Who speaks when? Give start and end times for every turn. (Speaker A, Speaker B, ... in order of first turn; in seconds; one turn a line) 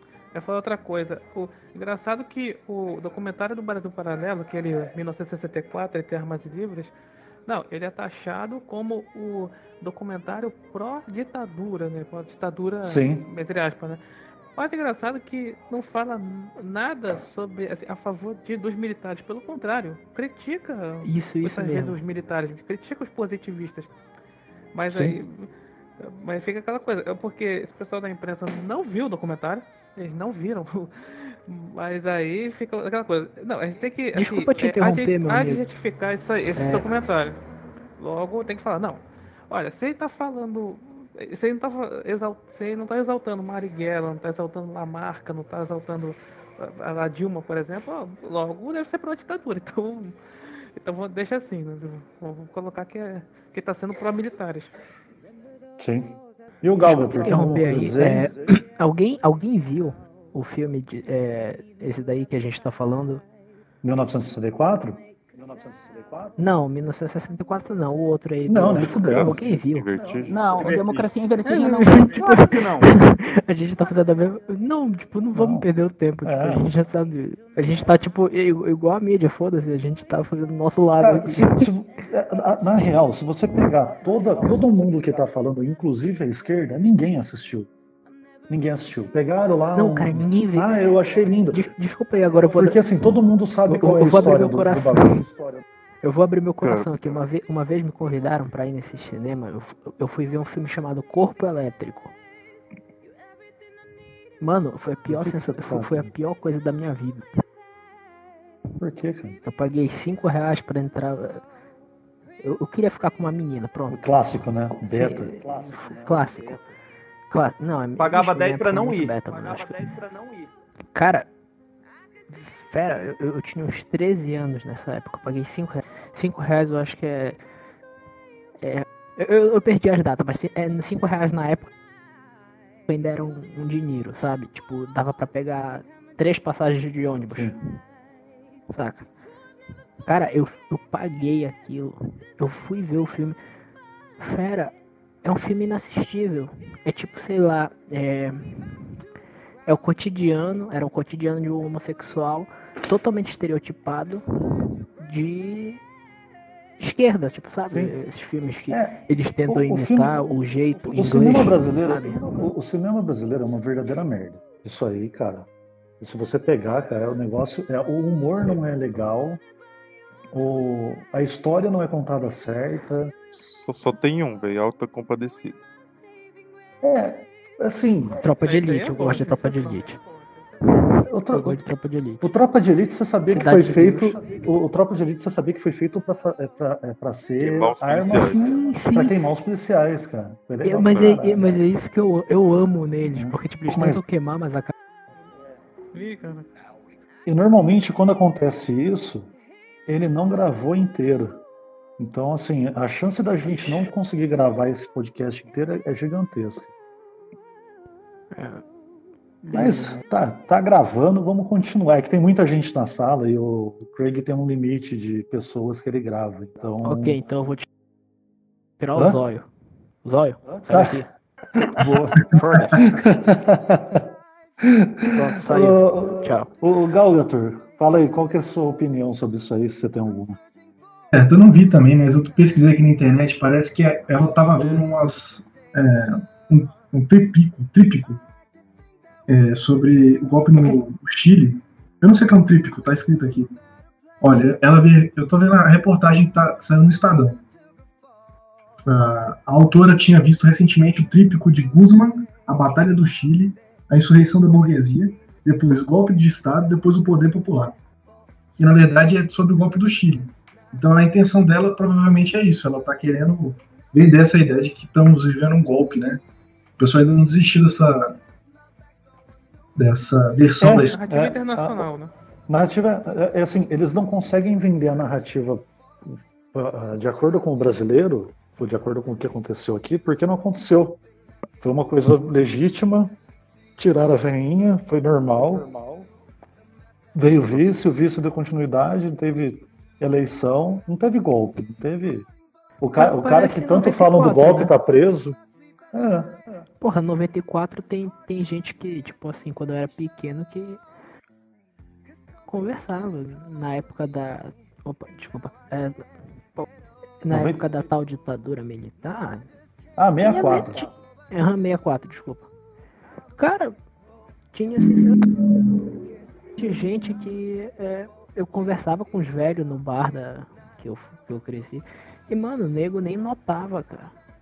Speaker A: 0.3-6.9
Speaker A: 7.5-14.0
Speaker B: 12.8-13.3
Speaker A: 14.6-23.9
Speaker C: 21.0-22.0
Speaker A: 24.7-25.5
Speaker B: 24.9-25.2
Speaker A: 26.0-30.9
Speaker A: 31.4-37.4
Speaker C: 34.1-35.6
Speaker C: 36.5-36.9
Speaker A: 38.0-50.1
Speaker A: 50.8-54.7
Speaker B: 55.8-58.5
Speaker C: 56.8-63.2
Speaker B: 63.8-66.4
Speaker C: 66.4-69.9
Speaker B: 68.5-69.4
Speaker D: 69.1-70.3
Speaker B: 70.0-70.7
Speaker E: 70.3-72.4
Speaker F: 70.5-71.2
Speaker C: 71.4-81.7
Speaker F: 72.1-72.9
Speaker B: 75.3-75.7
Speaker B: 76.2-76.7
Speaker B: 81.0-87.7
Speaker B: 88.5-91.7
Speaker C: 89.7-90.8
Speaker C: 91.5-92.8
Speaker B: 92.6-95.6
Speaker C: 93.7-95.2
Speaker C: 96.0-102.1
Speaker D: 96.6-96.9
Speaker C: 104.4-107.4
Speaker B: 105.1-106.1
Speaker B: 108.8-109.4
Speaker C: 109.5-111.4
Speaker C: 112.4-114.0
Speaker B: 113.9-116.3
Speaker C: 114.8-116.6
Speaker C: 117.3-119.9
Speaker F: 118.0-120.5
Speaker C: 120.9-121.3
Speaker C: 122.3-127.4
Speaker C: 128.6-131.7
Speaker C: 132.9-137.6
Speaker C: 138.7-139.1
Speaker C: 140.0-143.4
Speaker C: 144.2-149.0
Speaker C: 149.7-155.8
Speaker C: 156.8-162.4
Speaker B: 158.7-160.2
Speaker B: 160.8-165.5
Speaker B: 166.0-169.4
Speaker B: 170.3-173.1
Speaker D: 173.3-175.6
Speaker B: 176.8-178.2
Speaker C: 178.2-180.0
Speaker A: 178.4-180.8
Speaker C: 180.7-182.2
Speaker B: 181.1-181.6
Speaker B: 182.2-191.6
Speaker C: 183.3-184.2
Speaker D: 187.4-188.6
Speaker C: 188.1-189.1
Speaker C: 190.6-194.7
Speaker D: 190.8-191.5
Speaker B: 193.1-194.0
Speaker A: 195.9-196.5
Speaker B: 197.3-199.3
Speaker B: 199.9-201.4
Speaker B: 202.0-206.7
Speaker C: 208.3-208.6
Speaker C: 209.4-210.0
Speaker B: 209.5-217.2
Speaker C: 216.8-217.7
Speaker C: 218.8-219.5
Speaker C: 220.0-221.1
Speaker B: 220.6-221.0
Speaker B: 221.6-224.1
Speaker C: 222.2-223.0
Speaker B: 224.6-230.4
Speaker C: 225.1-226.5
Speaker G: 231.1-238.2
Speaker G: 239.3-243.6
Speaker G: 244.2-247.4
Speaker G: 248.8-257.8
Speaker G: 258.6-266.2
Speaker G: 266.8-268.2
Speaker G: 269.8-271.0
Speaker B: 270.6-271.9
Speaker A: 270.9-272.1
Speaker B: 272.5-281.0
Speaker B: 281.6-283.1
Speaker B: 283.8-285.7
Speaker B: 287.1-292.3
Speaker B: 292.8-295.4
Speaker C: 292.9-294.7
Speaker B: 295.9-296.4
Speaker C: 296.8-300.8
Speaker C: 302.5-306.7
Speaker C: 307.2-309.5
Speaker B: 307.3-307.6
Speaker B: 310.0-310.9
Speaker C: 310.2-312.5
Speaker C: 313.4-313.8
Speaker C: 314.5-315.4
Speaker C: 316.6-324.1